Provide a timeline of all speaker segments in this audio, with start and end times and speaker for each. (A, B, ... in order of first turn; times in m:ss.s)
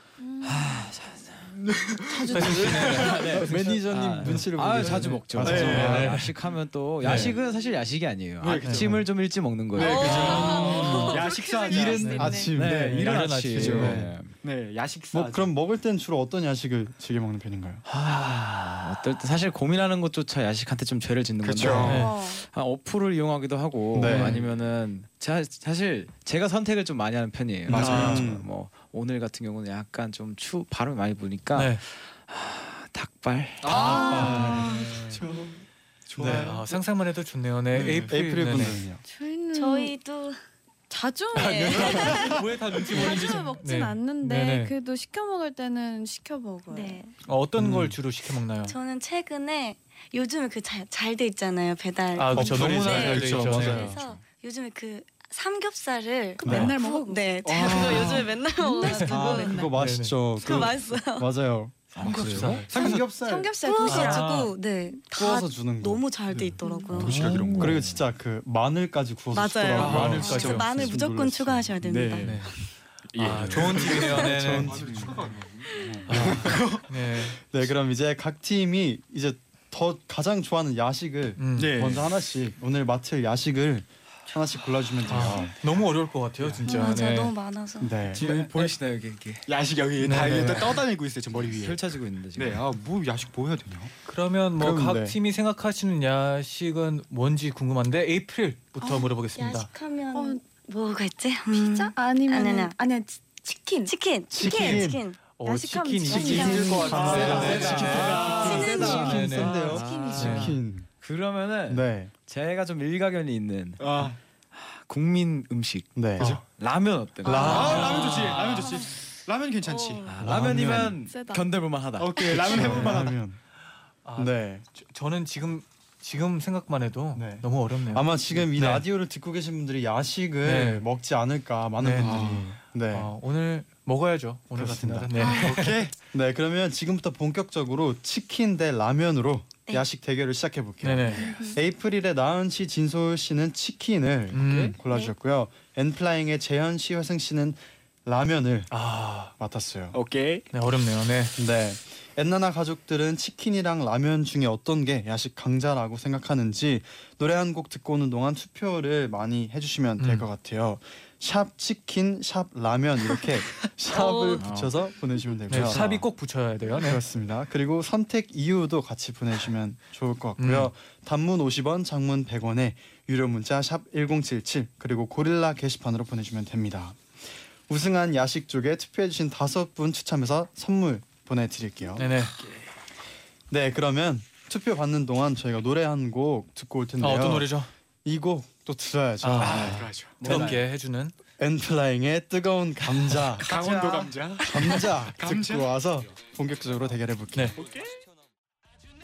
0:00.2-0:00.9 A
0:00.4-0:01.5 B
0:01.6-0:03.2 C
0:02.2-0:02.9 A
0:02.3-0:06.4 D
0:02.4-0:10.8 B
0:02.6-0:06.2 E
0:05.4-0:06.2 C
0:07.0-0:07.4 D
0:07.0-0:07.3 E
0:08.4-0:09.1 C
0:09.7-0:12.4 C
0:09.8-0:11.5 F
0:10.0-0:12.5 A
0:10.2-0:14.1 E
0:11.9-0:14.1 D
0:12.5-0:14.3 B
0:13.1-0:15.5 C
0:15.1-0:17.8 E
0:17.9-0:34.7 B
0:21.4-0:22.1 C
0:21.6-0:21.8 E
0:21.8-0:22.2 D
0:21.9-0:22.4 A
0:23.9-0:24.4 E
0:24.0-0:24.4 D
0:24.2-0:24.5 C
0:27.7-0:28.3 C
0:27.7-0:28.5 E
0:31.5-0:31.8 D
0:33.6-0:36.8 C
0:33.7-0:35.2 D
0:33.8-0:34.9 A
0:36.2-0:36.6 E
0:36.2-0:38.8 D
0:37.7-0:38.2 C
0:37.8-0:39.0 E
0:39.1-0:39.9 A
0:39.5-0:40.4 F
0:40.9-0:42.3 A
0:41.3-0:44.7 D
0:41.4-0:42.4 F
0:42.9-0:47.0 A
0:46.7-0:47.1 F
0:47.2-0:48.7 D
0:47.6-0:48.0 E
0:48.7-0:59.7 F
0:52.2-0:54.0 D
0:52.3-0:54.0 E
0:52.5-0:53.8 C
0:56.4-0:59.7 A
0:56.4-0:56.7 E
0:57.5-0:58.3 C
0:59.1-1:02.0 E
0:59.8-1:00.2 D
1:00.4-1:01.3 F
1:02.0-1:02.7 B
1:02.0-1:02.7 D
1:02.7-1:03.1 C
1:02.7-1:03.5 E
1:02.8-1:04.3 A
1:03.6-1:07.3 F
1:03.8-1:04.5 D
1:05.1-1:06.2 E
1:06.6-1:06.9 A
1:06.9-1:07.9 C
1:07.0-1:07.8 D
1:07.5-1:11.8 E
1:09.3-1:12.5 F
1:09.7-1:10.9 D
1:09.9-1:10.6 C
1:11.8-1:16.9 C
1:12.2-1:12.5 D
1:13.2-1:15.2 D
1:13.6-1:15.3 E
1:16.1-1:17.4 D
1:16.1-1:16.6 E
1:17.4-1:25.5 E
1:21.4-1:21.8 D
1:21.5-1:22.1 C
1:25.1-1:27.3 D
1:26.4-1:26.7 C
1:26.7-1:28.0 F
1:27.8-1:28.3 E
1:28.1-1:29.5 B
1:28.2-1:28.7 C
1:29.5-1:33.9 C
1:30.0-1:30.8 D
1:31.3-1:32.6 B
1:34.1-1:39.7 D
1:34.6-1:35.2 E
1:39.4-1:42.8 F
1:40.1-1:40.4 A
1:41.5-1:44.8 A
1:43.9-1:45.2 F
1:44.3-1:45.0 E
1:45.4-1:50.6 D
1:45.4-1:47.8 A
1:46.1-1:50.9 E
1:46.1-1:47.2 F
1:46.9-1:57.9 B
1:47.0-1:48.7 C
1:48.2-1:50.3 F
1:48.4-1:49.0 A
1:49.8-1:50.2 A
1:51.7-1:52.1 E
1:53.8-1:54.2 C
1:56.0-1:56.4 E
1:56.2-1:56.4 C
1:57.2-1:57.9 E
1:57.2-1:58.8 A
1:57.3-1:58.7 D
1:57.4-2:00.2 C
1:59.6-2:00.1 F
2:00.1-2:02.9 B
2:00.2-2:01.0 E
2:01.1-2:01.4 A
2:02.0-2:03.2 C
2:02.4-2:03.4 E
2:04.0-2:08.8 D
2:04.2-2:04.6 E
2:07.2-2:13.1 E
2:10.4-2:10.8 D
2:11.8-2:12.2 D
2:12.0-2:12.6 C
2:12.9-2:15.8 D
2:14.6-2:15.1 E
2:15.2-2:15.6 F
2:15.4-2:16.0 C
2:16.1-2:28.7 E
2:20.8-2:21.4 D
2:21.2-2:21.6 A
2:24.3-2:24.8 D
2:28.7-2:29.3 D
2:29.4-2:30.0 E
2:29.9-2:30.5 C
2:30.5-2:31.4 D
2:31.4-2:46.1 E
2:40.0-2:40.2 D
2:43.9-2:44.4 F
2:44.4-2:44.7 B
2:45.5-2:47.0 D
2:46.8-2:57.1 E
2:50.4-2:50.7 D
2:57.7-3:02.1 E
3:02.0-3:02.3 D
3:03.5-3:07.5 E
3:07.0-3:07.7 D
3:08.0-3:10.6 E
3:09.2-3:11.1 D
3:09.4-3:10.6 C
3:10.2-3:10.5 B
3:11.4-3:13.5 E
3:13.4-3:15.7 C
3:13.4-3:14.1 B
3:14.4-3:17.5 E
3:17.5-3:18.0 C